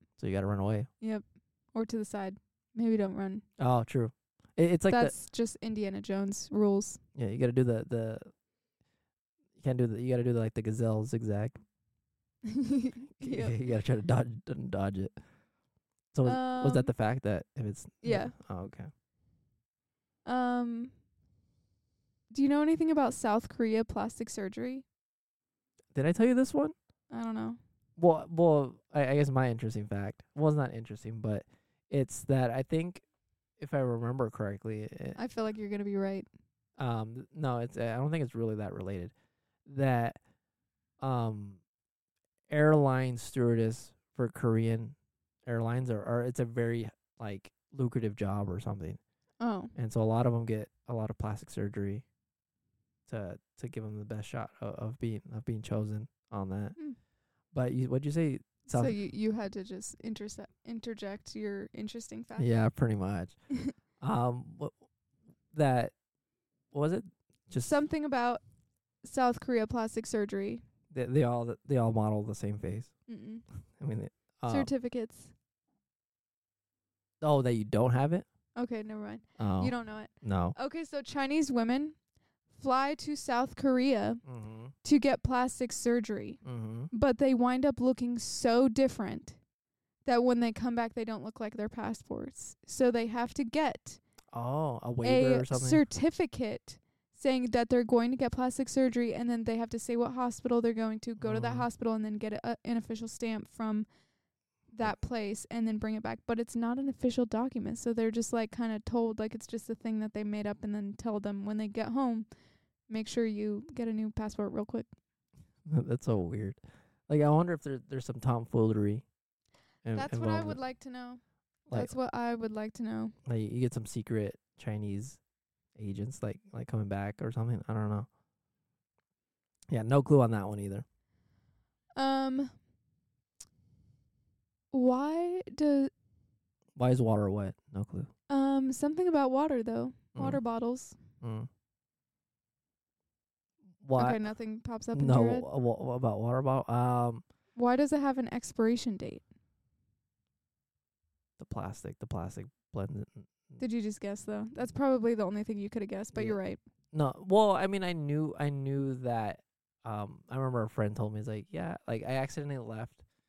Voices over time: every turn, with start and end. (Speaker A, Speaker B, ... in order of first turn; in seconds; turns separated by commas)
Speaker A: 0.2-0.9, Speaker B: 1.0-3.4, Speaker A: 3.6-5.1, Speaker B: 4.9-7.0, Speaker A: 7.1-8.3, Speaker A: 9.6-11.6, Speaker B: 12.5-13.6, Speaker A: 13.2-15.1, Speaker A: 16.1-18.9, Speaker B: 16.2-16.9, Speaker B: 18.0-18.3, Speaker B: 20.2-20.9, Speaker B: 22.3-24.8, Speaker A: 25.9-26.7, Speaker B: 27.1-27.6, Speaker A: 28.0-33.0, Speaker A: 33.6-35.2, Speaker B: 35.1-36.3, Speaker A: 36.8-39.1, Speaker A: 39.6-40.2, Speaker A: 41.0-41.6, Speaker A: 42.5-44.9, Speaker A: 45.5-49.0, Speaker B: 49.4-49.7, Speaker A: 49.7-52.0, Speaker A: 53.1-56.8, Speaker A: 57.5-59.0, Speaker B: 58.7-62.5, Speaker A: 62.4-63.3, Speaker A: 64.0-64.7, Speaker A: 65.5-65.9, Speaker A: 66.7-67.8, Speaker B: 67.6-68.4, Speaker B: 69.0-70.6, Speaker A: 70.9-72.9, Speaker B: 73.1-73.4, Speaker A: 73.8-74.7, Speaker B: 74.5-75.3, Speaker A: 77.2-78.2, Speaker B: 78.5-82.0, Speaker A: 79.4-80.5, Speaker B: 82.5-84.2, Speaker A: 84.2-84.7, Speaker B: 84.8-89.4, Speaker A: 86.4-86.9, Speaker B: 90.0-94.0, Speaker A: 94.3-95.8, Speaker B: 95.0-103.9, Speaker A: 101.2-101.7, Speaker B: 104.7-112.3, Speaker B: 112.9-114.9, Speaker A: 115.7-119.0, Speaker A: 119.8-120.6, Speaker B: 119.9-123.1, Speaker A: 123.2-125.2, Speaker A: 125.8-128.1, Speaker A: 129.7-130.8, Speaker B: 131.9-132.5, Speaker B: 134.7-135.9, Speaker A: 136.8-138.1, Speaker B: 138.3-141.0, Speaker A: 140.1-140.4, Speaker A: 141.2-141.5, Speaker A: 143.8-144.2, Speaker B: 143.9-145.5, Speaker A: 144.9-147.2, Speaker B: 147.6-149.2, Speaker A: 151.4-153.6, Speaker B: 153.6-156.6, Speaker A: 156.9-163.0